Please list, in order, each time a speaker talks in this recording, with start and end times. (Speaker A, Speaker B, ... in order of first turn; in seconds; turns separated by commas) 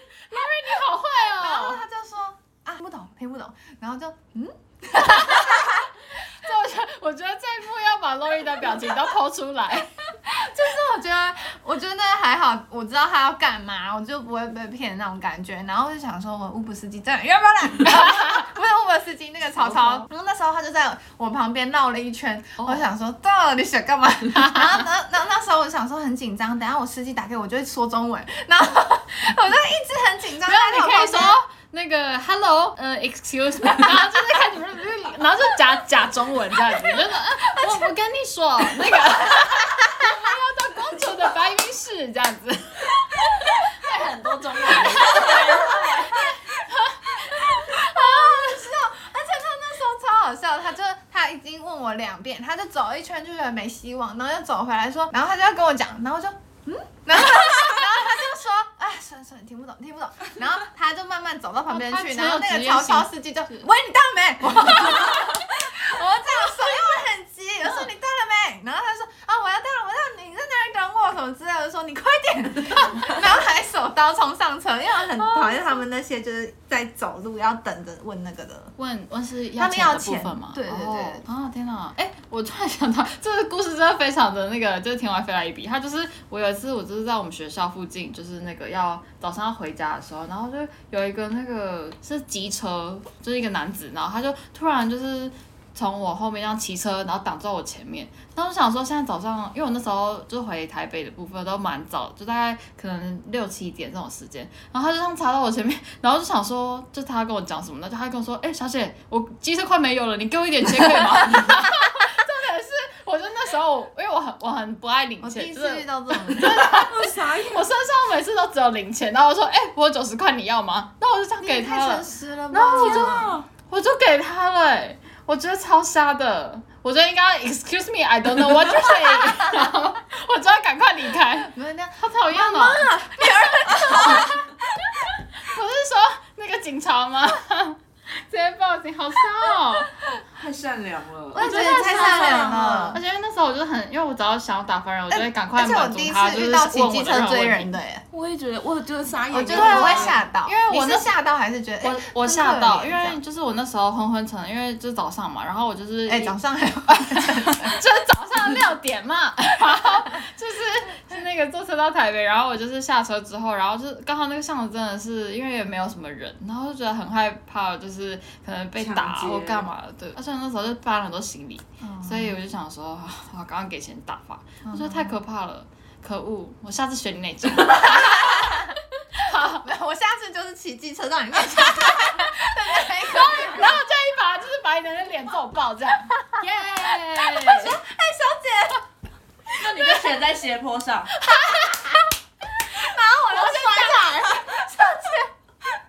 Speaker A: 0.3-1.8, Speaker B: 1.3-5.9, Speaker A: 5.0-5.8, Speaker A: 6.4-9.9, Speaker B: 10.2-31.4, Speaker A: 19.7-20.0, Speaker A: 30.4-43.5, Speaker C: 43.5-46.3, Speaker A: 44.9-45.3, Speaker A: 46.7-48.6, Speaker B: 47.4-78.7, Speaker A: 61.7-63.7, Speaker A: 64.8-65.2, Speaker A: 78.8-122.1, Speaker B: 79.6-81.2, Speaker B: 115.2-116.8, Speaker D: 116.5-117.6, Speaker B: 121.4-123.3, Speaker D: 122.5-123.5, Speaker A: 122.6-134.5, Speaker B: 131.5-134.5, Speaker A: 135.1-139.9, Speaker D: 140.3-142.9, Speaker B: 141.3-143.0, Speaker A: 141.4-147.7, Speaker B: 145.1-148.1, Speaker E: 148.1-150.1, Speaker B: 149.3-153.2, Speaker A: 149.4-151.1, Speaker A: 151.8-156.4, Speaker B: 156.1-157.8, Speaker A: 156.9-179.7, Speaker D: 168.8-169.7, Speaker B: 171.8-172.4, Speaker B: 174.7-175.1, Speaker B: 177.8-178.6, Speaker B: 179.5-183.8, Speaker A: 181.5-187.8, Speaker B: 186.5-188.8, Speaker D: 189.6-191.1, Speaker B: 191.6-191.9, Speaker B: 192.7-195.3, Speaker A: 193.3-194.3